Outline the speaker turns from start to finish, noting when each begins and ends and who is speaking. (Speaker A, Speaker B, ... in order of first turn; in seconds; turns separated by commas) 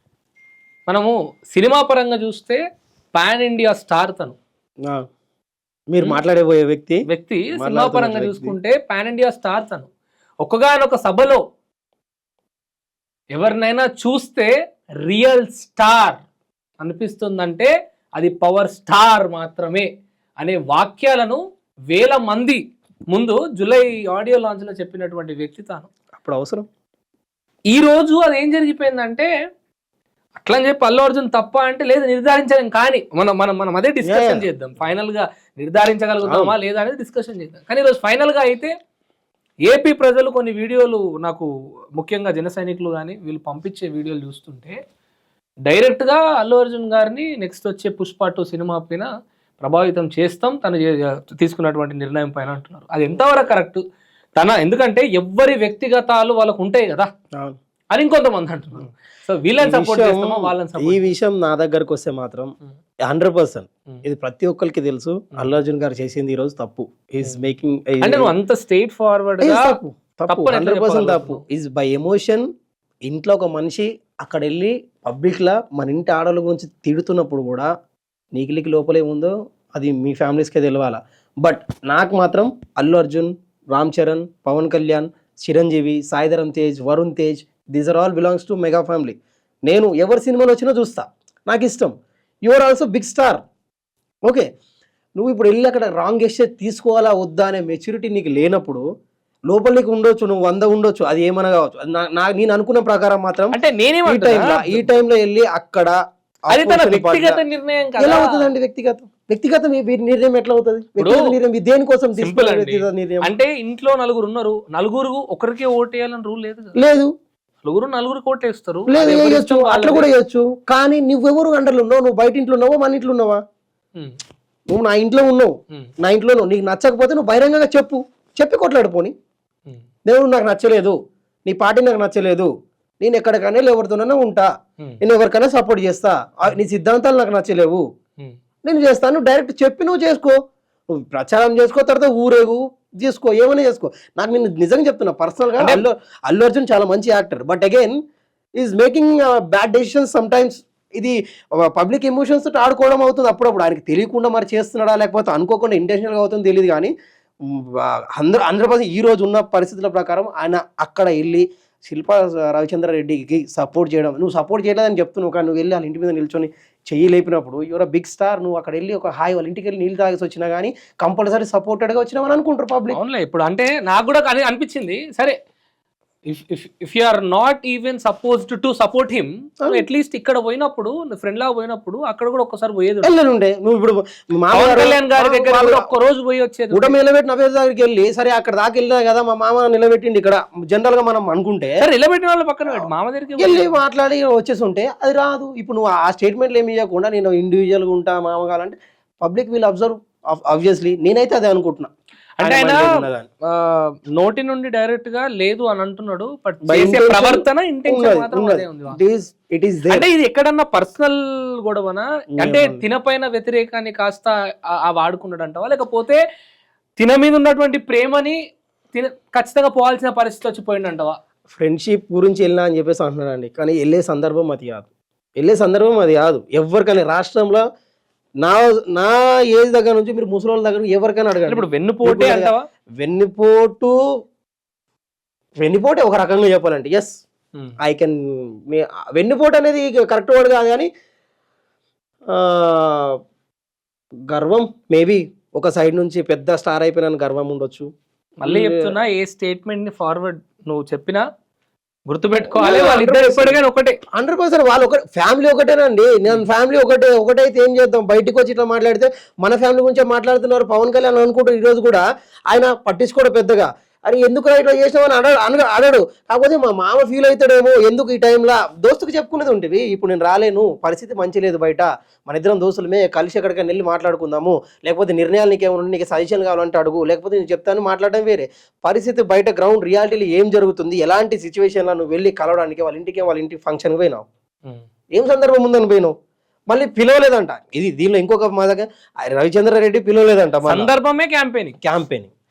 Speaker A: 0.9-2.6, Speaker A: 3.1-4.4, Speaker B: 5.9-7.0, Speaker A: 7.1-9.9, Speaker B: 7.6-8.6, Speaker A: 10.4-11.4, Speaker A: 13.3-14.5, Speaker A: 15.0-16.2, Speaker A: 16.8-19.9, Speaker A: 20.4-21.4, Speaker A: 21.9-22.6, Speaker A: 23.1-25.9, Speaker B: 26.2-26.7, Speaker A: 27.7-29.3, Speaker A: 30.4-38.7, Speaker B: 34.0-34.5, Speaker B: 36.2-36.5, Speaker A: 39.6-44.8, Speaker A: 45.7-49.1, Speaker A: 49.6-53.8, Speaker A: 54.4-57.1, Speaker A: 57.9-61.1, Speaker B: 59.6-62.5, Speaker B: 63.1-68.3, Speaker A: 68.0-69.7, Speaker B: 69.4-72.5, Speaker A: 70.3-71.4, Speaker B: 73.1-77.7, Speaker B: 78.3-89.2, Speaker B: 89.7-91.9, Speaker B: 92.4-93.4, Speaker B: 95.2-98.8, Speaker B: 99.5-106.0, Speaker A: 103.5-104.9, Speaker B: 106.5-107.4, Speaker A: 106.5-108.5, Speaker B: 108.0-113.3, Speaker A: 111.0-111.3, Speaker A: 112.2-116.8, Speaker B: 116.8-117.1, Speaker A: 117.6-120.1, Speaker B: 118.9-123.4, Speaker B: 124.7-129.1, Speaker B: 130.1-132.5, Speaker B: 133.0-134.5, Speaker B: 135.0-137.8, Speaker B: 138.6-140.4, Speaker B: 141.0-148.0, Speaker A: 145.6-145.8, Speaker B: 148.6-156.9, Speaker B: 157.5-173.0, Speaker A: 172.9-175.4, Speaker A: 176.3-183.1, Speaker B: 183.0-185.9, Speaker A: 184.5-186.9, Speaker B: 186.7-191.8, Speaker A: 191.8-193.8, Speaker B: 193.4-201.9, Speaker A: 202.4-209.0, Speaker B: 202.4-203.3, Speaker B: 206.7-210.1, Speaker A: 209.9-216.2, Speaker B: 212.4-212.8, Speaker A: 217.0-218.4, Speaker A: 218.9-221.2, Speaker B: 221.5-224.9, Speaker B: 225.4-227.6, Speaker B: 228.4-233.9, Speaker A: 231.5-232.6, Speaker B: 235.6-237.1, Speaker B: 237.8-240.9, Speaker B: 242.3-243.2, Speaker B: 244.3-247.9, Speaker A: 248.4-251.2, Speaker B: 248.4-248.9, Speaker A: 252.1-254.0, Speaker B: 252.5-253.6, Speaker B: 254.1-284.2, Speaker B: 285.1-286.1, Speaker B: 286.7-290.9, Speaker A: 290.6-291.8, Speaker B: 291.8-292.3